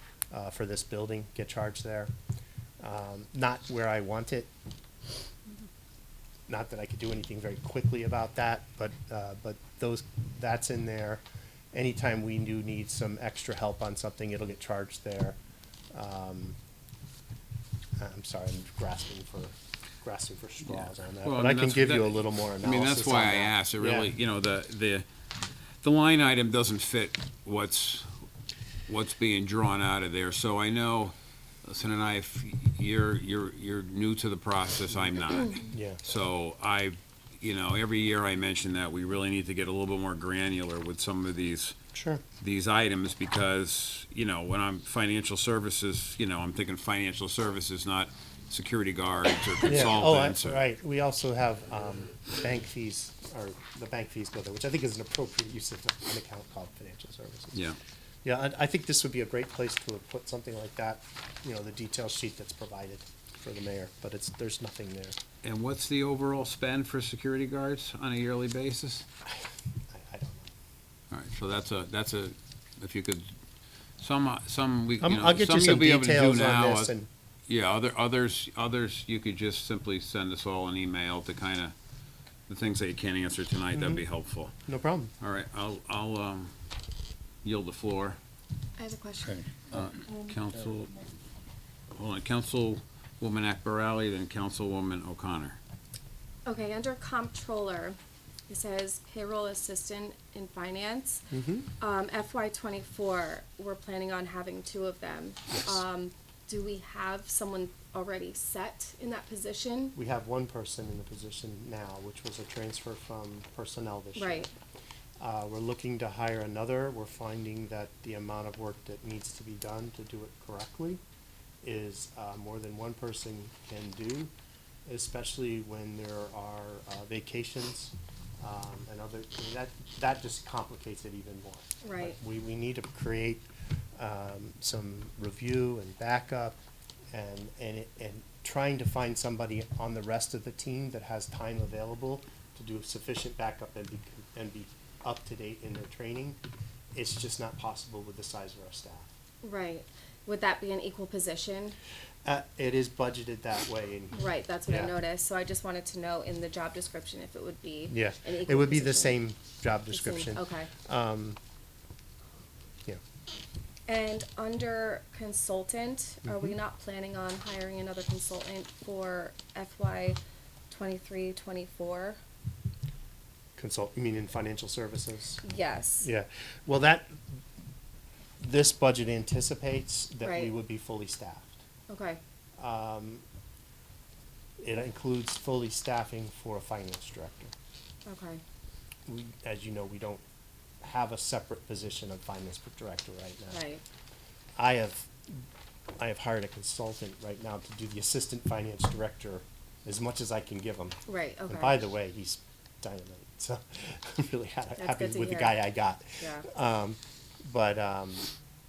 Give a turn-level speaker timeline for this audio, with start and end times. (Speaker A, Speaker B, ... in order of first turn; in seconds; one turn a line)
Speaker A: 0.3-2.1
Speaker A: 2.8-4.5
Speaker A: 6.5-15.4
Speaker A: 15.9-16.6
Speaker A: 18.0-24.1
Speaker B: 20.7-25.1
Speaker B: 25.8-28.1
Speaker B: 28.9-41.8
Speaker A: 35.6-36.0
Speaker A: 41.9-42.2
Speaker B: 42.4-50.6
Speaker A: 49.7-57.6
Speaker A: 58.2-65.2
Speaker B: 65.4-69.1
Speaker A: 69.3-70.5
Speaker B: 71.1-73.3
Speaker B: 74.0-76.9
Speaker A: 75.0-77.1
Speaker B: 77.5-81.8
Speaker B: 82.5-84.5
Speaker A: 83.7-84.0
Speaker A: 84.7-85.1
Speaker B: 85.2-86.5
Speaker B: 87.4-88.2
Speaker C: 88.8-89.5
Speaker B: 89.7-91.0
Speaker B: 92.0-95.6
Speaker C: 96.5-98.0
Speaker C: 98.5-101.2
Speaker A: 101.3-101.7
Speaker C: 101.8-110.0
Speaker A: 105.5-105.8
Speaker A: 110.0-114.5
Speaker C: 114.2-114.5
Speaker A: 115.2-121.0
Speaker A: 121.6-124.3
Speaker A: 124.9-136.6
Speaker C: 131.8-132.2
Speaker A: 137.1-146.4
Speaker A: 146.9-149.1
Speaker C: 149.4-151.8
Speaker A: 152.2-155.0
Speaker C: 154.1-159.2
Speaker A: 157.9-161.4
Speaker C: 159.9-160.7
Speaker C: 163.9-170.2
Speaker A: 166.3-166.6
Speaker C: 170.7-172.2
Speaker A: 173.6-175.4
Speaker C: 175.4-176.1
Speaker A: 176.0-177.2
Speaker A: 178.4-181.6
Speaker C: 180.2-180.6
Speaker C: 181.9-182.2
Speaker A: 182.6-183.2
Speaker A: 184.6-187.5
Speaker C: 188.1-188.4
Speaker A: 189.1-190.2
Speaker A: 190.8-193.6
Speaker C: 193.5-193.8
Speaker A: 194.6-195.4
Speaker A: 196.0-208.3
Speaker C: 201.1-201.8
Speaker C: 204.8-206.5